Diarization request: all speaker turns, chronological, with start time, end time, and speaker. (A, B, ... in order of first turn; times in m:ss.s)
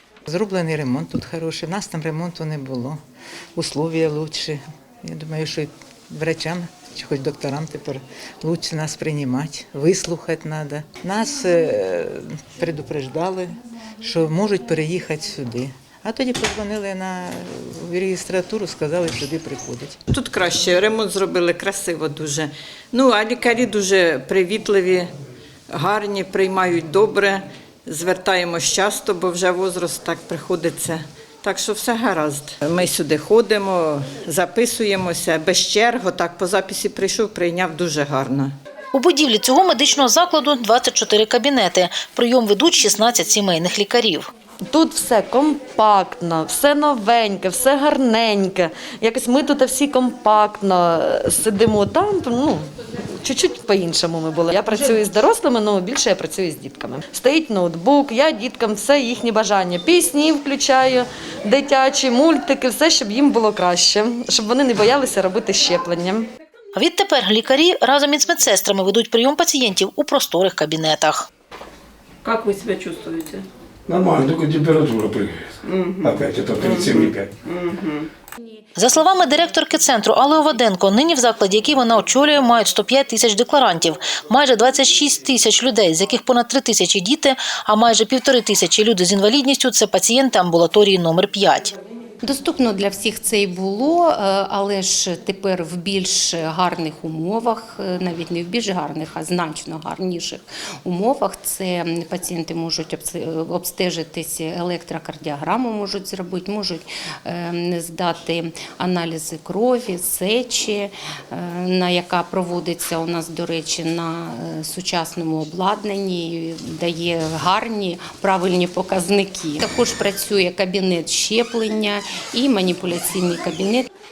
0:00.3-0:03.0 A
0:03.6-0:20.0 A
0:20.1-0:25.1 B
0:25.7-0:38.5 B
0:38.9-0:44.3 C
0:44.7-0:52.7 D
0:53.2-1:06.3 D
1:06.7-1:11.3 C
1:12.2-1:13.4 E
1:13.9-1:17.3 F
1:15.6-1:18.1 E
1:18.8-1:31.7 C
1:32.2-2:03.9 G